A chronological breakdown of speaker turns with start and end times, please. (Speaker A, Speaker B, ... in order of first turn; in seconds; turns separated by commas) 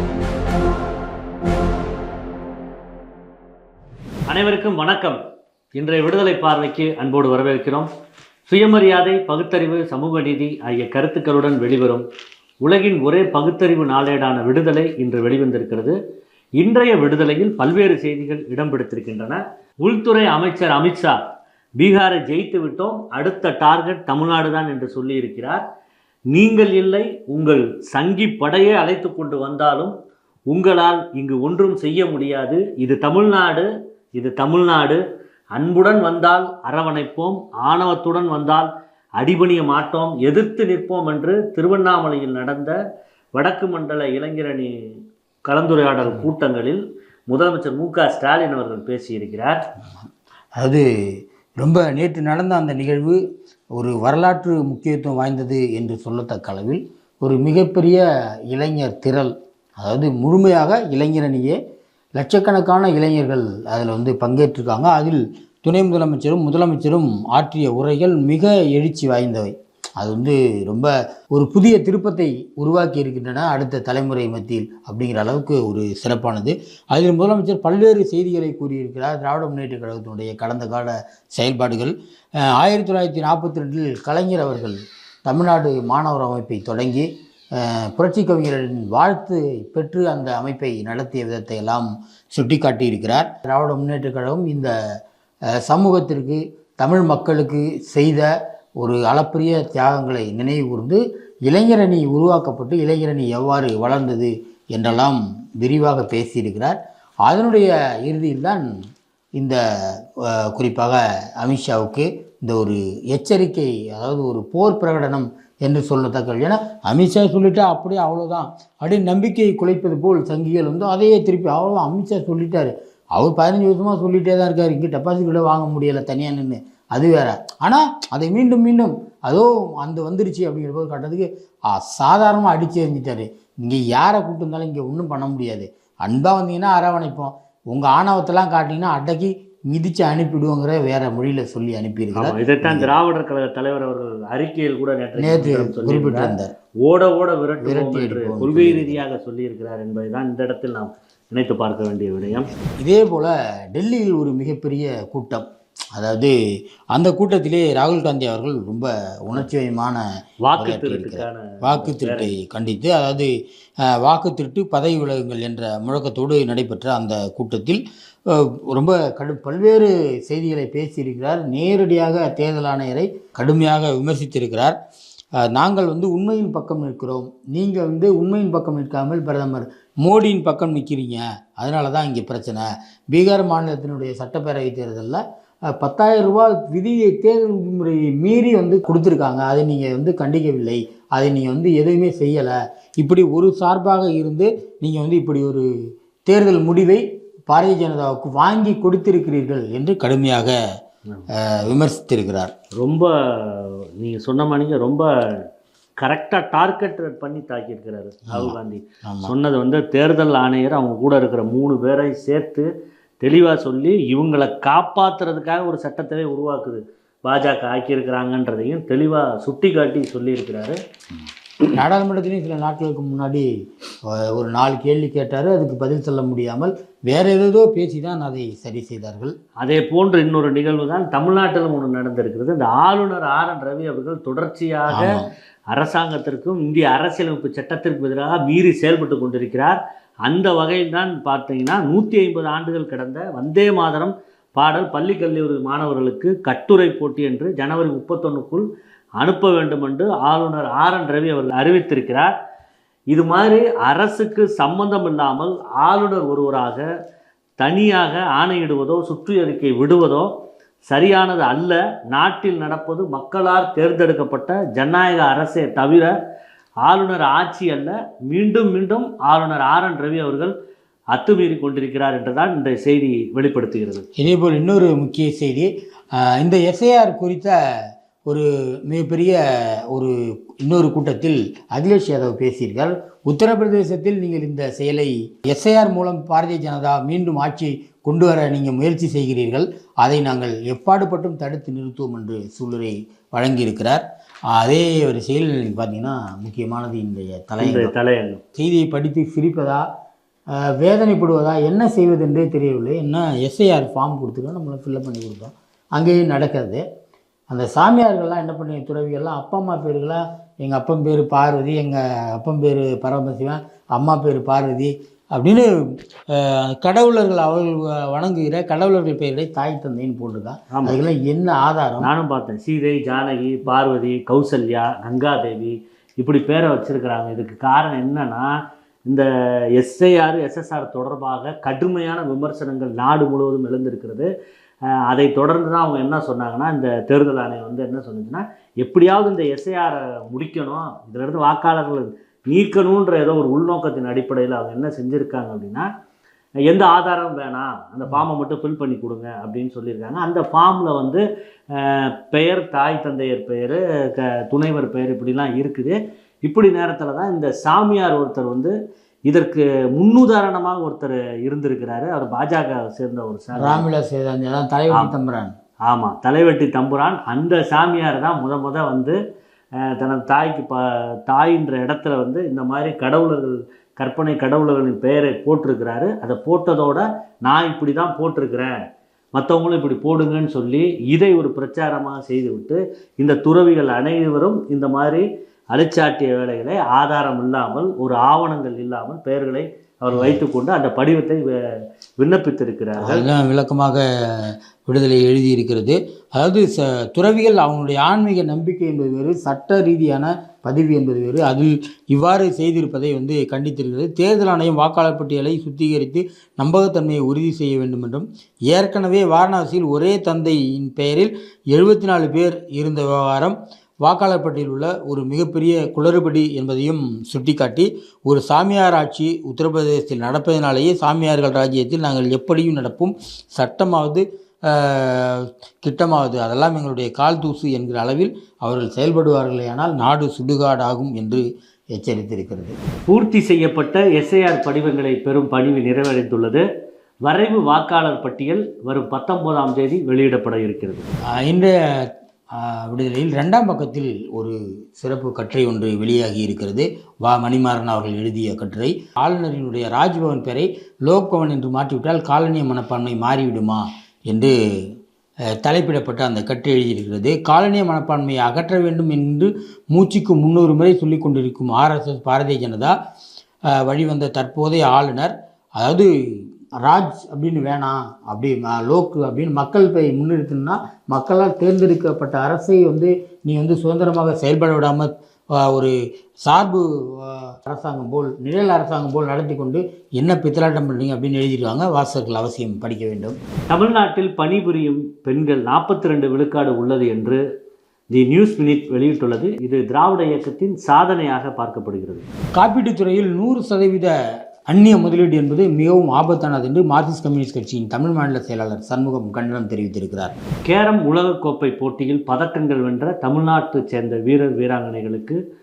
Speaker A: 4.3-5.2, Speaker A: 5.8-7.9, Speaker A: 8.5-12.1, Speaker A: 12.6-16.0, Speaker A: 16.6-21.2, Speaker A: 21.8-25.6, Speaker A: 26.3-29.9, Speaker A: 30.5-35.0, Speaker A: 35.5-42.8, Speaker A: 43.4-44.7, Speaker A: 45.5-49.7, Speaker B: 50.6-50.9, Speaker B: 51.6-53.2, Speaker B: 53.8-61.6, Speaker B: 62.2-94.7, Speaker B: 95.5-98.3, Speaker B: 98.8-108.7, Speaker B: 109.4-142.9, Speaker A: 142.2-152.5, Speaker B: 145.2-146.5, Speaker B: 147.6-149.0, Speaker B: 152.6-156.3, Speaker B: 156.9-160.0, Speaker A: 160.4-162.4, Speaker B: 160.5-163.3, Speaker B: 163.8-174.8, Speaker B: 175.4-195.7, Speaker B: 196.3-200.6, Speaker B: 201.3-202.5, Speaker A: 202.8-205.4, Speaker A: 206.0-212.7, Speaker B: 208.3-209.3, Speaker A: 213.2-220.8, Speaker B: 221.7-223.5, Speaker B: 224.1-229.3, Speaker A: 229.6-235.2, Speaker B: 234.9-235.3, Speaker A: 235.7-248.7, Speaker A: 249.2-252.3, Speaker A: 253.1-256.9, Speaker A: 257.6-260.3, Speaker A: 260.9-266.1, Speaker A: 266.9-270.5, Speaker A: 271.1-274.1, Speaker B: 274.2-277.6, Speaker B: 278.2-280.1, Speaker B: 280.6-297.9, Speaker A: 297.6-298.4, Speaker B: 298.6-299.9, Speaker B: 300.5-306.8, Speaker B: 307.5-315.7, Speaker B: 316.3-322.1, Speaker A: 320.7-321.0, Speaker A: 322.0-328.6, Speaker A: 329.1-334.3, Speaker A: 335.0-345.9, Speaker A: 346.7-358.7, Speaker A: 359.3-363.9, Speaker B: 363.6-365.5, Speaker A: 365.9-369.2, Speaker A: 369.8-378.7, Speaker A: 379.4-391.6, Speaker B: 390.1-390.4, Speaker A: 392.2-393.3, Speaker B: 393.0-432.8, Speaker A: 433.1-436.6, Speaker A: 437.3-441.1, Speaker B: 441.4-454.9, Speaker B: 455.6-463.0, Speaker B: 463.7-475.9, Speaker B: 476.5-483.4, Speaker A: 483.7-487.4, Speaker A: 488.1-492.3, Speaker B: 492.6-494.1, Speaker B: 494.7-500.3, Speaker A: 500.7-505.4